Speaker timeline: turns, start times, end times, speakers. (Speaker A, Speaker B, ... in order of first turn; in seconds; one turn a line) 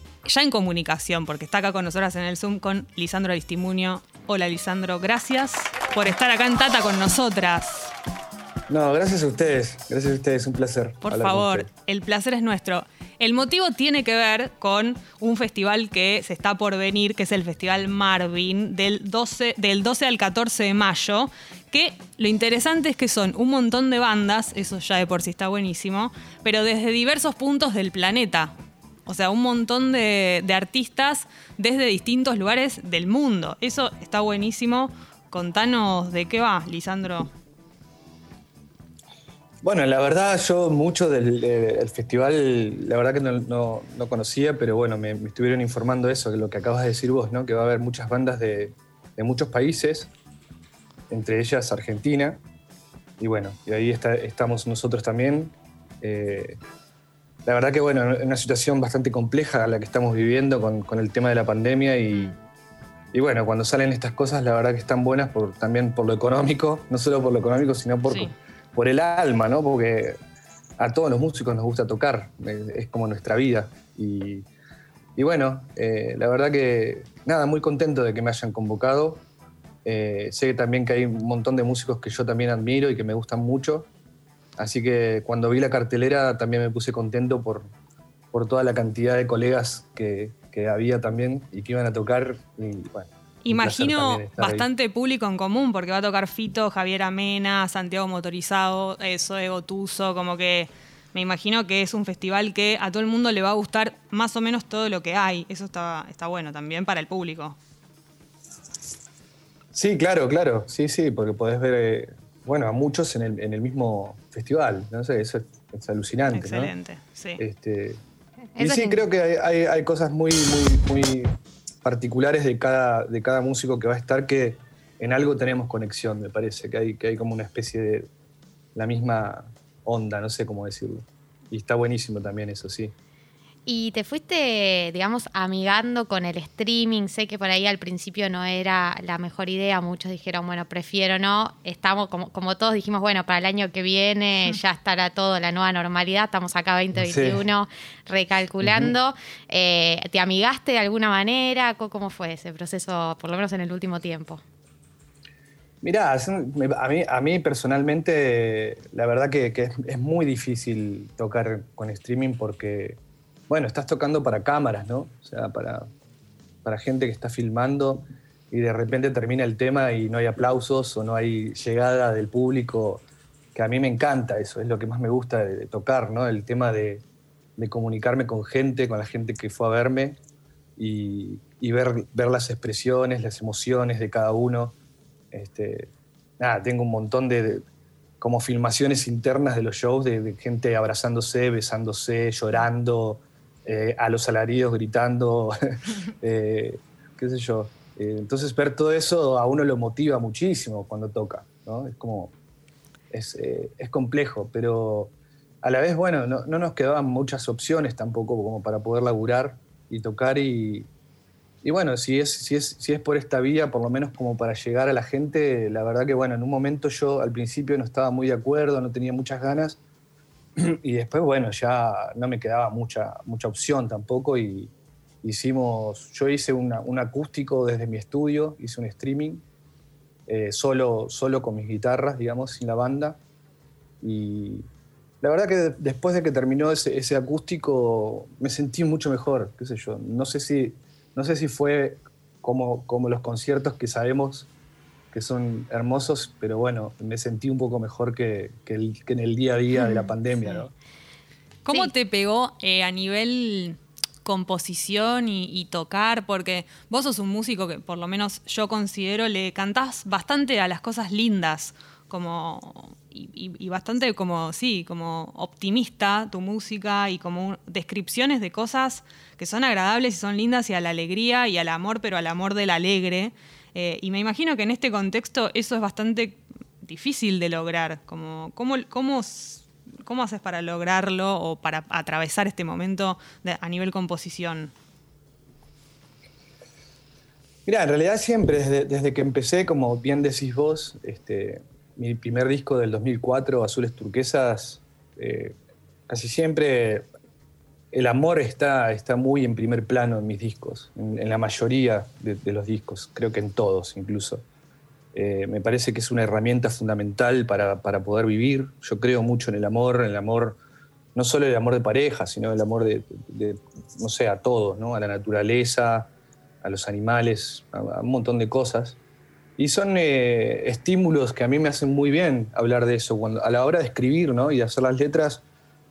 Speaker A: 0.2-7.9
Speaker B: 8.7-11.7
Speaker A: 11.0-28.5
Speaker A: 29.1-37.3
Speaker B: 39.6-50.1
Speaker B: 51.1-52.4
Speaker B: 53.2-56.6
Speaker B: 57.4-62.3
Speaker B: 63.1-70.2
Speaker B: 70.8-74.5
Speaker B: 75.2-79.2
Speaker B: 79.8-83.9
Speaker B: 84.6-87.7
Speaker B: 88.3-94.7
Speaker A: 93.4-107.6
Speaker B: 109.7-116.7
Speaker A: 116.3-117.4
Speaker B: 117.4-118.0
Speaker C: 118.5-119.0
Speaker B: 118.6-128.1
Speaker B: 128.7-132.9
Speaker C: 133.7-154.4
Speaker B: 146.9-147.4
Speaker B: 148.6-148.9
Speaker B: 155.8-165.9
Speaker B: 166.6-173.0
Speaker B: 173.5-177.0
Speaker B: 177.6-180.2
Speaker B: 180.8-184.8
Speaker B: 185.3-187.6
Speaker B: 188.2-195.5
Speaker B: 196.2-202.3
Speaker B: 203.1-210.9
Speaker B: 211.6-219.8
Speaker B: 220.6-224.7
Speaker B: 225.2-229.4
Speaker B: 230.3-233.2
Speaker B: 234.0-234.6
Speaker B: 235.2-244.5
Speaker B: 245.1-250.7
Speaker A: 251.6-284.7
Speaker B: 287.6-295.6
Speaker B: 296.1-297.0
Speaker B: 297.9-304.4
Speaker B: 305.1-310.6
Speaker B: 311.1-316.1
Speaker B: 316.6-319.0
Speaker B: 319.6-325.4